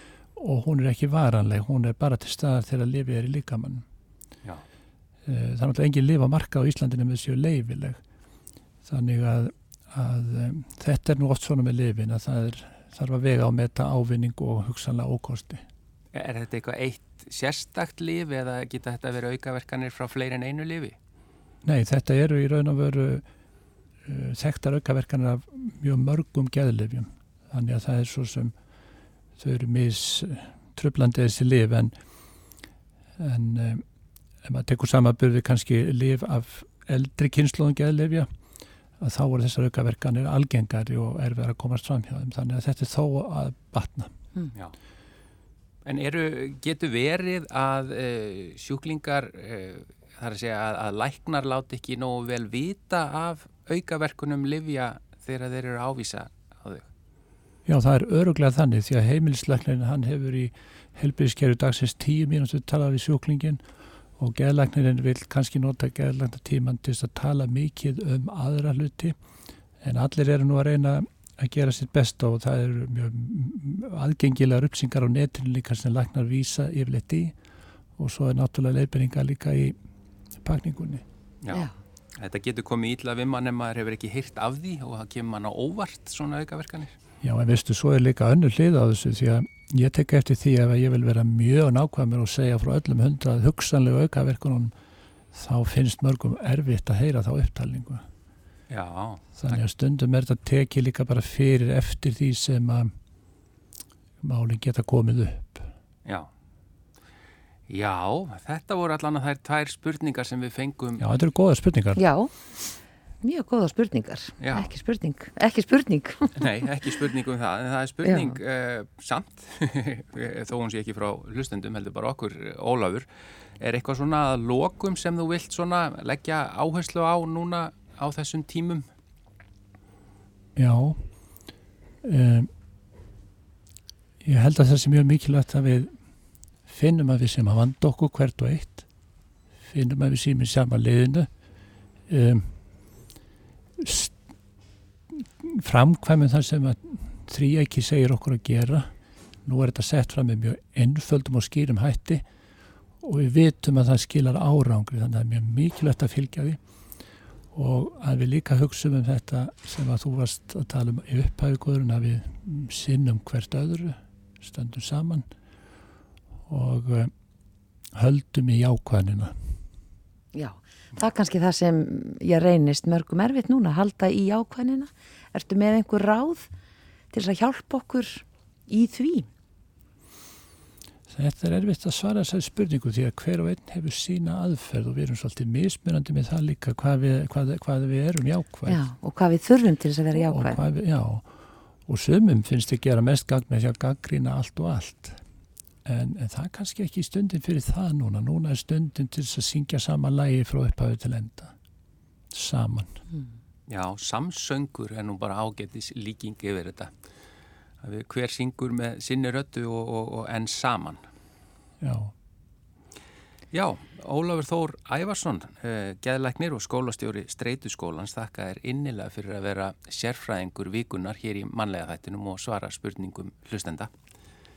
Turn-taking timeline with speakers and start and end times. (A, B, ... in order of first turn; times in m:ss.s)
0:00.3-0:03.8 A
0:05.2-0:08.0 A
0:08.8-0:15.6 A
0:16.1-0:21.0 B
0:21.6-0:23.2 A
0:24.0-0:28.5 A
0:29.4-0:31.9 A
0:33.2-0:33.8 A
0:34.4-0:38.3 A
0:39.0-0:44.1 A
0:45.8-0:56.9 B
0:57.6-1:03.6 A
1:04.2-1:09.2 A
1:09.8-1:17.3 A
1:18.0-1:19.8 A
1:20.4-1:21.0 A
1:21.4-1:27.0 B
1:27.2-1:34.7 A
1:35.3-1:38.0 A
1:38.7-1:39.6 B
1:39.4-1:42.9 A
1:44.2-1:45.7 A
1:46.0-1:46.3 B
1:47.7-1:51.0 B
1:51.0-1:52.0 A
1:51.9-1:52.3 C
1:53.2-1:56.5 C
1:54.4-1:54.7 B
1:56.3-2:08.9 B
1:58.0-1:58.4 C
2:10.6-2:11.0 A
2:12.0-2:12.5 A
2:14.2-2:15.9 A
2:16.6-2:18.8 A
2:19.6-2:21.3 A
2:22.1-2:22.5 A
2:23.8-2:24.2 A
2:25.1-2:28.9 A
2:29.4-2:32.2 A
2:33.0-2:36.6 A
2:37.5-2:45.2 A
2:46.5-2:47.1 A
2:47.9-2:49.5 A
2:50.3-2:56.5 C
2:57.1-2:59.3 C
3:01.1-3:08.8 A
3:08.7-3:10.6 C
3:10.1-3:11.2 A
3:11.8-3:15.2 A
3:15.8-3:21.5 A
3:22.3-3:23.0 A
3:23.7-3:26.9 B
3:27.8-3:31.0 B
3:31.8-3:32.1 A
3:33.5-3:43.9 B